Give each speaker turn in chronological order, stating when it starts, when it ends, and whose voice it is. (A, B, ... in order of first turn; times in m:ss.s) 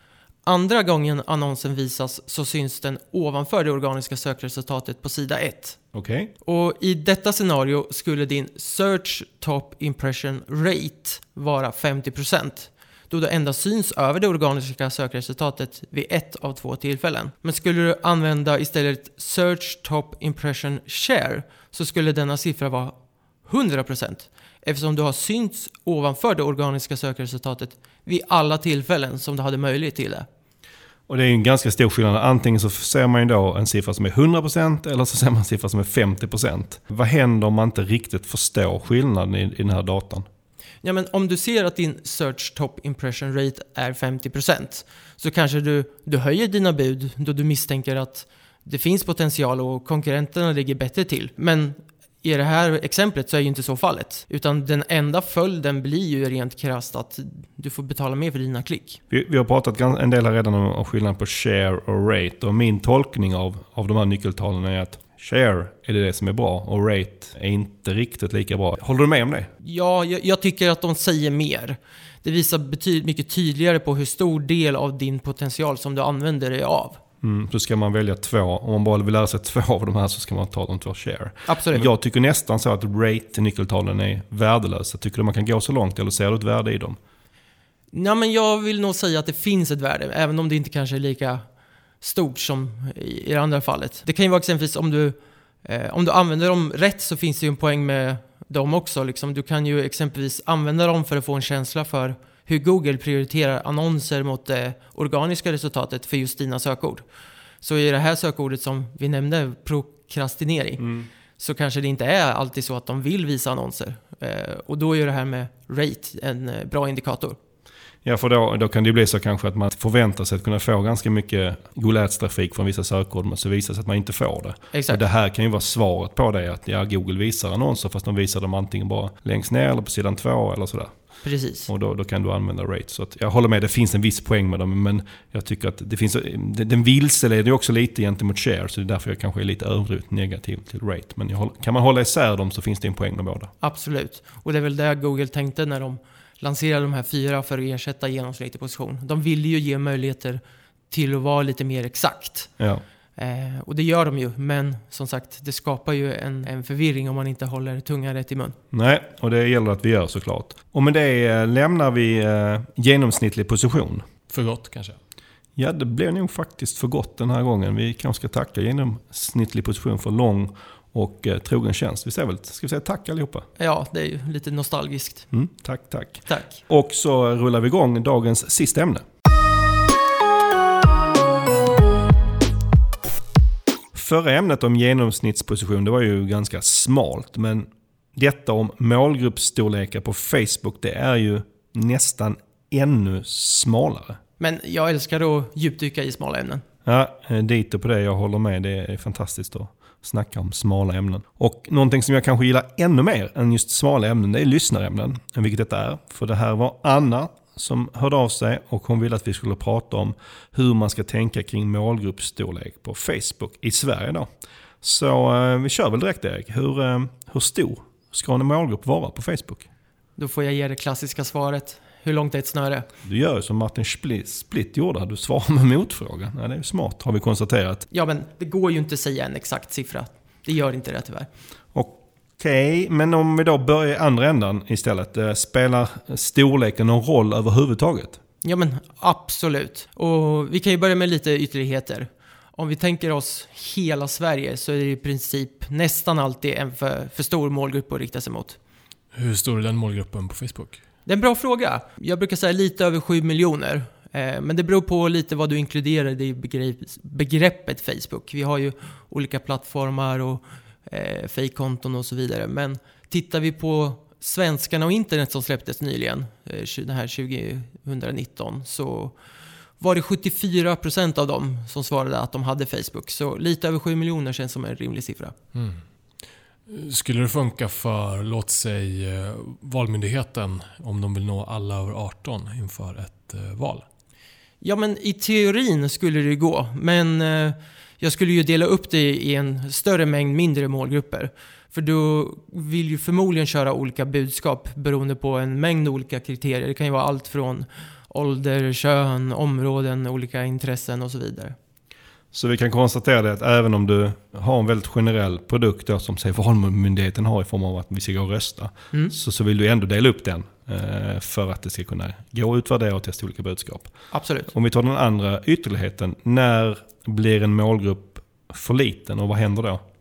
0:00.4-0:05.8 A
0:05.9-0:06.3 B
0:06.4-0:22.9 A
0:23.4-0:30.2 A
0:31.1-0:40.3 B
0:40.8-0:59.0 A
0:59.1-1:09.5 B
1:09.6-1:17.0 A
1:17.2-1:27.0 B
1:21.5-1:21.9 A
1:27.9-1:31.4 A
1:32.0-1:47.0 A
1:47.6-1:50.8 A
1:50.8-1:51.1 B
1:51.4-1:57.4 A
1:58.0-2:11.0 B
2:04.7-2:05.0 A
2:11.2-2:11.7 A
2:11.7-2:23.5 B
2:23.6-2:32.5 A
2:33.2-2:38.6 A
2:38.7-2:44.0 B
2:44.3-2:45.0 C
2:45.6-2:53.4 B
2:53.6-2:55.3 A
2:55.3-2:59.0 B
2:56.3-2:56.6 A
3:03.9-3:14.2 B
3:14.4-3:16.6 A
3:16.8-3:34.3 B
3:34.8-3:39.6 B
3:40.2-3:42.9 A
3:43.0-3:47.9 B
3:47.9-3:51.3 A
3:51.7-3:58.2 B
3:58.4-4:08.6 A
4:09.1-4:10.8 C
4:11.0-4:29.1 A
4:29.8-4:35.3 A
4:35.5-4:35.8 C
4:36.7-4:43.8 C
4:44.6-5:01.5 A
5:02.3-5:13.9 B
5:14.1-5:14.5 A
5:14.5-5:19.8 B